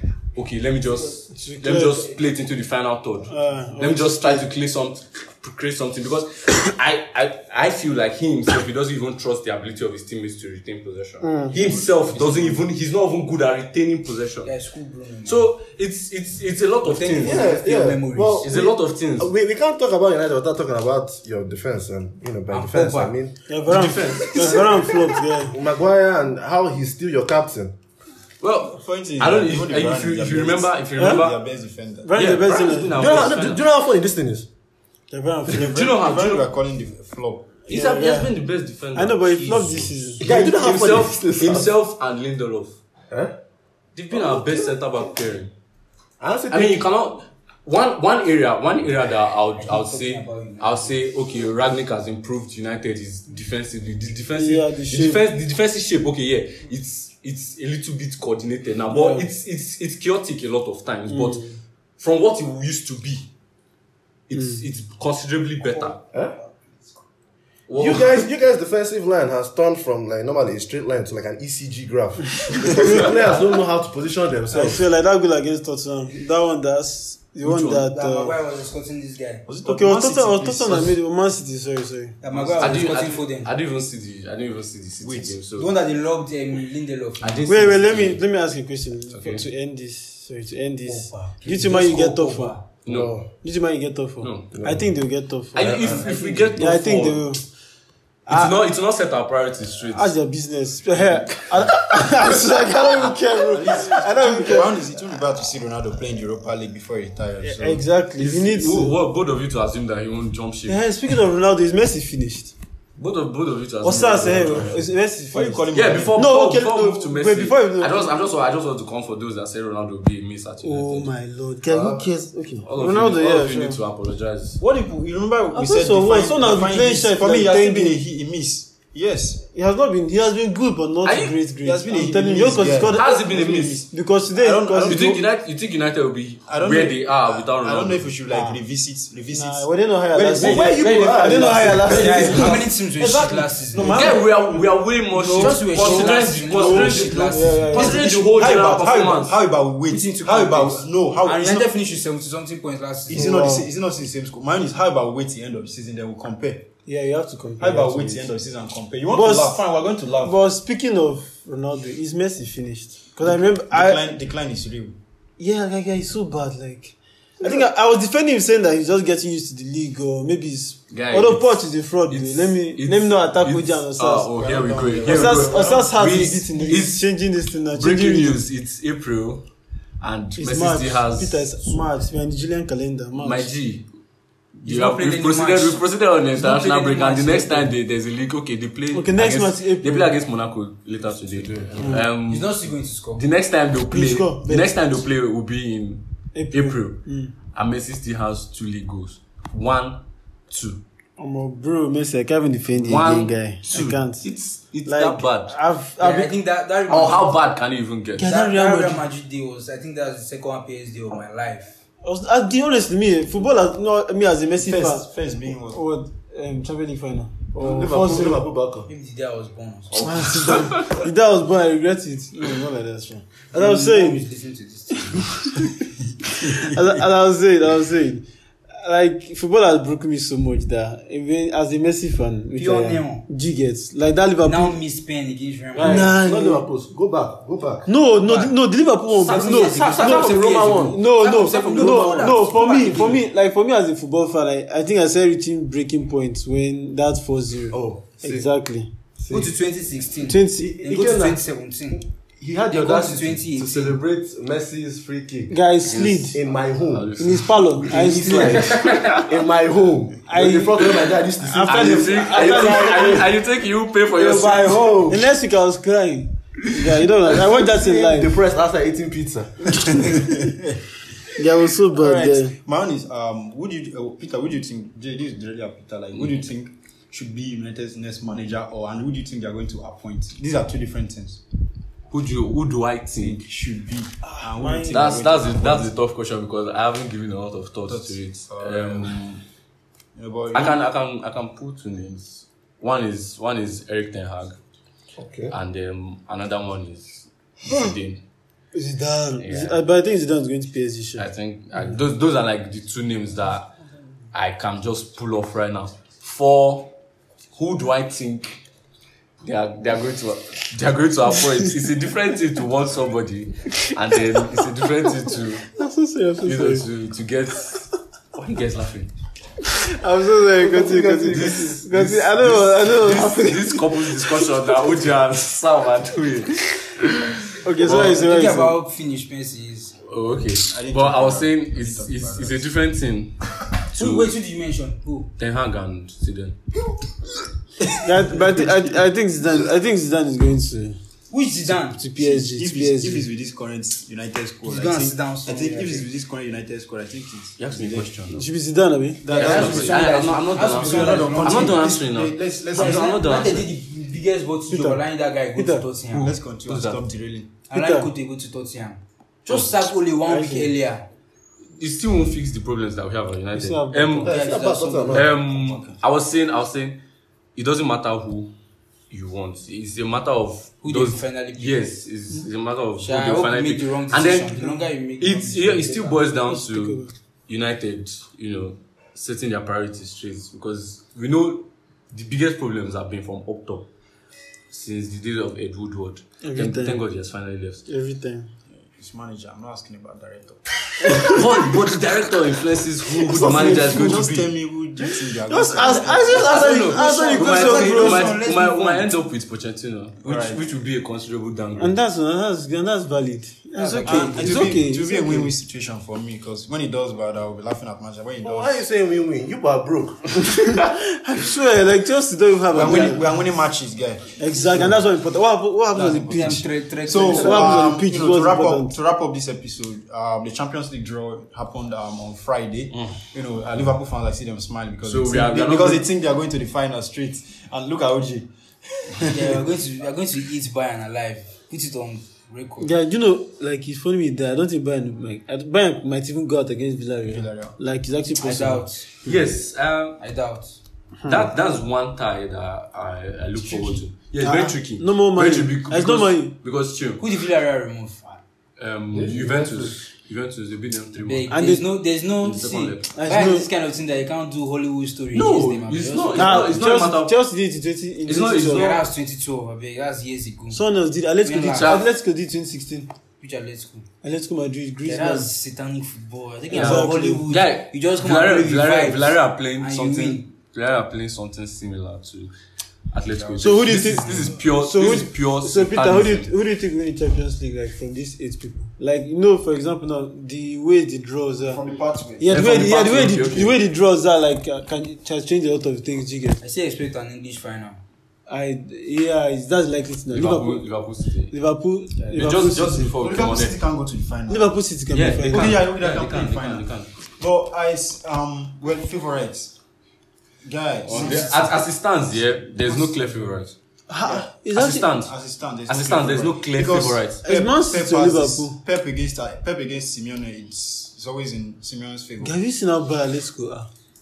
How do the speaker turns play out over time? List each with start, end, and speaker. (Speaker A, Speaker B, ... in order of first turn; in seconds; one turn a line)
Speaker A: 0.3-14.5
Speaker B: 1.3-2.1
Speaker B: 3.3-4.5
Speaker B: 11.2-11.5
Speaker C: 14.4-15.5
Speaker A: 15.2-17.5
Speaker C: 16.8-18.5
Speaker D: 17.2-24.9
Speaker A: 18.4-19.3
Speaker C: 22.5-23.2
Speaker B: 23.5-25.5
Speaker A: 23.6-24.8
Speaker D: 25.4-27.7
Speaker A: 28.4-31.4
Speaker E: 28.6-32.2
Speaker B: 32.0-33.2
Speaker A: 32.1-33.6
Speaker D: 32.9-34.5
Speaker B: 35.1-35.9
Speaker E: 35.5-37.5
Speaker A: 35.5-36.5
Speaker B: 37.7-38.3
Speaker A: 37.7-42.8
Speaker B: 38.9-40.3
Speaker D: 40.2-41.7
Speaker A: 43.9-45.5
Speaker D: 44.1-44.7
Speaker D: 46.2-46.8
Speaker A: 46.5-63.3
Speaker C: 49.6-50.9
Speaker B: 54.4-55.2
Speaker B: 58.9-59.3
Speaker B: 61.1-61.6
Speaker A: 64.3-66.0
Speaker A: 67.7-68.3
Speaker D: 67.7-74.8
Speaker B: 72.8-73.0
Speaker B: 74.5-78.3
Speaker C: 77.5-79.5
Speaker E: 79.5-81.0
Speaker B: 79.6-82.2
Speaker C: 82.2-83.5
Speaker E: 82.3-82.9
Speaker A: 82.6-85.7
Speaker E: 85.0-85.4
Speaker C: 85.5-87.5
Speaker A: 87.2-88.2
Speaker B: 87.5-92.6
Speaker A: 89.1-89.5
Speaker C: 90.9-92.6
Speaker A: 92.8-93.2
Speaker D: 92.8-93.3
Speaker B: 93.4-95.8
Speaker A: 94.2-94.5
Speaker D: 94.5-94.9
Speaker A: 95.5-97.3
Speaker D: 95.5-96.1
Speaker C: 95.9-96.5
Speaker B: 96.5-97.4
Speaker B: 98.3-98.6
Speaker A: 98.3-100.2
Speaker B: 99.9-104.7
Speaker A: 101.0-101.3
Speaker E: 103.5-107.8
Speaker B: 107.4-108.9
Speaker A: 108.2-110.8
Speaker B: 110.7-112.5
Speaker A: 113.0-114.9
Speaker B: 113.8-118.1
Speaker E: 115.3-116.2
Speaker A: 115.7-121.1
Speaker B: 120.6-123.8
Speaker D: 121.7-122.0
Speaker A: 122.6-124.6
Speaker E: 124.6-129.4
Speaker B: 125.5-128.0
Speaker B: 129.5-133.2
Speaker A: 131.0-131.4
Speaker E: 131.6-135.2
Speaker A: 132.9-133.9
Speaker B: 133.8-135.2
Speaker A: 134.8-138.1
Speaker E: 136.5-141.0
Speaker B: 138.3-138.6
Speaker B: 139.3-144.2
Speaker D: 140.3-142.6
Speaker C: 141.1-144.2
Speaker A: 142.2-142.6
Speaker E: 143.8-144.0
Speaker A: 143.8-149.4
Speaker C: 145.1-148.1
Speaker B: 145.8-148.0
Speaker E: 147.7-151.7
Speaker C: 149.9-153.4
Speaker E: 153.1-156.7
Speaker B: 153.1-153.7
Speaker B: 156.8-158.3
Speaker E: 157.6-160.3
Speaker B: 159.1-159.6
Speaker B: 160.2-164.0
Speaker E: 163.2-165.0
Speaker B: 165.4-174.3
Speaker A: 170.9-177.1
Speaker E: 174.3-175.9
Speaker B: 175.0-178.4
Speaker A: 177.7-179.4
Speaker A: 180.0-181.8
Speaker B: 180.4-183.5
Speaker A: 183.2-183.9
Speaker C: 184.6-185.8
Speaker A: 184.6-192.6
Speaker C: 186.3-187.7
Speaker B: 188.9-190.1
Speaker D: 191.3-192.0
Speaker B: 191.8-192.1
Speaker C: 192.2-193.2
Speaker A: 193.1-200.8
Speaker B: 193.9-194.7
Speaker B: 196.3-197.3
Speaker B: 201.2-204.3
Speaker A: 202.7-205.6
Speaker B: 204.8-206.3
Speaker C: 206.0-207.3
Speaker A: 206.9-208.2
Speaker B: 208.1-209.0
Speaker C: 208.2-211.8
Speaker B: 212.0-215.1
Speaker E: 214.6-215.8
Speaker B: 215.7-218.4
Speaker D: 217.5-218.9
Speaker C: 218.9-220.1
Speaker A: 219.9-220.9
Speaker B: 220.0-224.2
Speaker C: 223.5-225.5
Speaker B: 226.4-234.8
Speaker C: 232.6-233.2
Speaker C: 234.4-236.1
Speaker D: 235.7-237.9
Speaker B: 235.8-236.7
Speaker B: 237.8-248.9
Speaker C: 238.1-238.5
Speaker C: 239.2-243.2
Speaker A: 239.2-240.9
Speaker D: 239.9-241.0
Speaker D: 247.7-248.5
Speaker D: 249.2-249.5
Speaker C: 249.3-252.1
Speaker B: 250.2-250.7
Speaker D: 250.5-255.6
Speaker C: 252.7-254.0
Speaker B: 255.5-256.4
Speaker A: 255.9-256.3
Speaker D: 256.3-257.2
Speaker A: 256.9-259.2
Speaker B: 257.2-258.7
Speaker D: 257.9-263.3
Speaker C: 258.8-259.2
Speaker B: 260.2-263.2
Speaker A: 261.7-265.0
Speaker D: 264.1-265.2
Speaker B: 265.0-268.4
Speaker D: 267.3-270.1
Speaker B: 269.9-270.3
Speaker E: 270.0-270.6
Speaker B: 271.3-272.6
Speaker E: 271.9-281.4
Speaker A: 282.1-283.4
Speaker E: 283.1-285.9
Speaker B: 284.2-285.0
Speaker A: 284.9-289.4
Speaker E: 287.9-289.2
Speaker E: 290.1-290.8
Speaker A: 290.5-294.6
Speaker D: 295.2-295.5
Speaker A: 295.5-298.2
Speaker B: 298.7-301.3
Speaker A: 299.4-299.8
Speaker A: 301.2-303.7
Speaker A: 304.3-306.9
Speaker A: 307.5-308.6
Speaker A: 309.4-315.7
Speaker B: 315.7-316.9
Speaker A: 316.4-319.1
Speaker B: 319.6-324.4
Speaker D: 320.5-321.8
Speaker A: 321.3-328.1
Speaker B: 327.6-328.8
Speaker C: 327.8-329.9
Speaker A: 330.1-334.3
Speaker E: 330.6-332.7
Speaker C: 333.9-335.3
Speaker A: 335.4-336.6
Speaker B: 338.0-341.0
Speaker C: 341.3-342.0
Speaker E: 341.7-348.2
Speaker B: 342.0-343.3
Speaker C: 344.6-346.1
Speaker A: 347.6-348.4
Speaker B: 348.3-350.1
Speaker C: 349.3-351.9
Speaker A: 349.4-353.7
Speaker E: 350.6-353.1
Speaker C: 352.7-356.3
Speaker B: 354.7-355.0
Speaker B: 355.5-356.3
Speaker E: 356.1-357.5
Speaker A: 356.7-357.0
Speaker C: 357.7-361.0
Speaker B: 357.7-358.1
Speaker B: 360.3-360.7
Speaker A: 361.8-364.3
Speaker B: 363.5-364.3
Speaker C: 364.2-365.4
Speaker D: 364.2-365.3
Speaker A: 365.1-367.0
Speaker E: 365.4-366.0
Speaker A: 367.6-368.5
Speaker A: 369.1-383.9
Speaker C: 370.8-371.9
Speaker C: 373.0-376.2
Speaker B: 376.5-377.1
Speaker A: 384.7-387.9
Speaker B: 386.4-387.0
Speaker B: 387.9-388.5
Speaker E: 388.8-391.4
Speaker B: 391.0-391.4
Speaker A: 391.1-394.5
Speaker E: 393.3-396.8
Speaker B: 393.3-394.2
Speaker B: 395.0-398.4
Speaker C: 395.9-399.1
Speaker A: 396.7-401.9
Speaker E: 400.2-400.6
Speaker B: 401.8-405.5
Speaker C: 403.8-404.7
Speaker E: 404.0-408.8
Speaker D: 408.4-410.9
Speaker B: 410.4-413.2
Speaker E: 412.7-414.9
Speaker B: 414.4-416.7
Speaker E: 415.9-429.6
Speaker C: 416.3-417.8
Speaker B: 417.3-418.9
Speaker A: 425.0-426.1
Speaker C: 429.2-432.9
Speaker B: 432.8-438.8
Speaker E: 437.2-437.8
Speaker C: 438.4-439.1
Speaker A: 439.2-440.2
Speaker C: 440.2-440.7
Speaker B: 441.2-441.5
Speaker A: 441.3-447.2
Speaker B: 443.6-446.5
Speaker C: 447.2-448.4
Speaker A: 448.8-451.5
Speaker D: 449.1-449.9
Speaker C: 451.1-456.7
Speaker B: 451.5-451.9
Speaker A: 452.4-453.1
Speaker B: 453.1-453.7
Speaker A: 455.3-457.4
Speaker B: 456.3-458.9
Speaker A: 458.2-459.0
Speaker C: 458.7-460.8
Speaker B: 460.7-463.1
Speaker C: 461.4-462.0
Speaker A: 461.6-462.0
Speaker C: 463.4-464.1
Speaker B: 464.2-465.5
Speaker C: 465.0-470.4
Speaker B: 466.7-467.4
Speaker A: 466.7-472.5
Speaker A: 473.1-476.5
Speaker E: 473.2-474.1
Speaker B: 473.6-481.8
Speaker E: 481.6-482.8
Speaker B: 482.4-486.6
Speaker A: 482.5-483.7
Speaker C: 486.6-488.0
Speaker B: 488.5-490.9
Speaker A: 490.3-491.5
Speaker B: 491.5-493.1
Speaker A: 492.3-493.8
Speaker E: 493.1-494.7
Speaker B: 494.5-495.7
Speaker A: 495.1-497.1
Speaker E: 495.4-499.7
Speaker E: 500.6-501.9
Speaker A: 501.1-503.8
Speaker B: 504.1-505.1
Speaker A: 504.7-505.3
Speaker E: 505.1-512.6
Speaker A: 505.9-507.4
Speaker B: 507.4-508.8
Speaker B: 512.4-513.9